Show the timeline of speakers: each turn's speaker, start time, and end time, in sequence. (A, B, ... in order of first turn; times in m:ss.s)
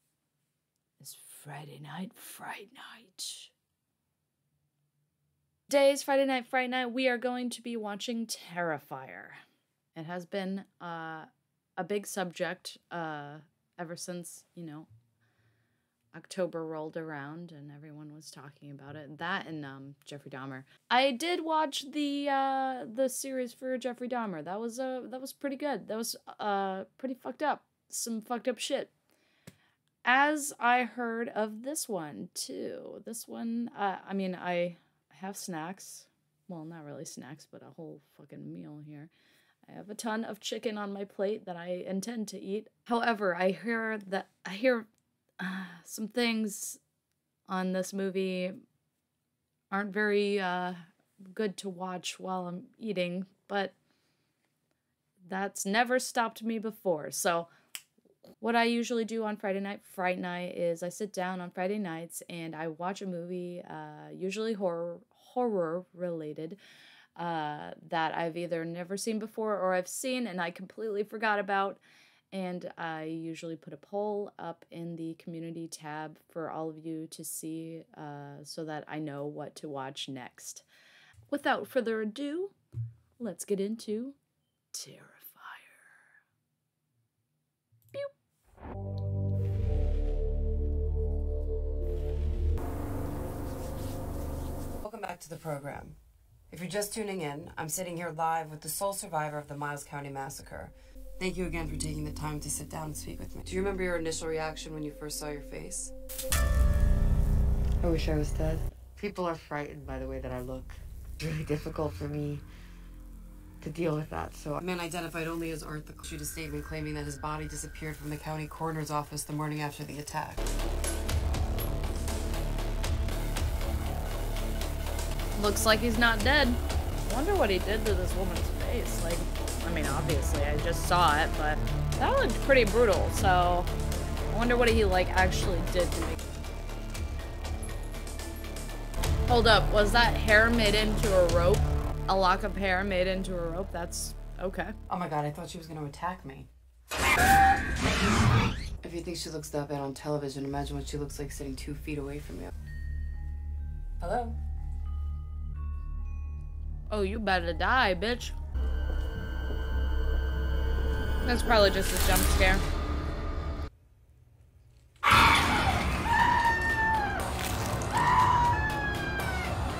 0:01.0-0:03.5 A
0:05.7-0:09.4 A
0:09.9-0:14.9 A
0:16.1-0:28.9 A
0:30.0-0:39.1 A
0:39.6-0:44.9 A
0:45.4-0:46.8 A
0:47.5-0:48.6 A
0:49.7-0:53.7 A
0:55.2-0:57.5 A
0:58.4-1:06.6 A
1:07.2-1:20.6 A
1:21.3-1:22.5 A
1:23.2-1:24.2 A
1:24.7-1:25.9 A
1:34.8-1:36.0 B
1:36.5-1:45.9 B
1:47.8-1:52.4 C
1:53.6-1:54.6 C
1:54.6-2:00.5 B
2:05.4-2:13.7 A
2:14.3-2:16.2 A
2:19.3-2:24.7 A
2:24.9-2:26.5 B
2:28.8-2:32.5 B
2:34.0-2:34.4 B
2:36.9-2:38.3 A
2:41.2-2:42.6 A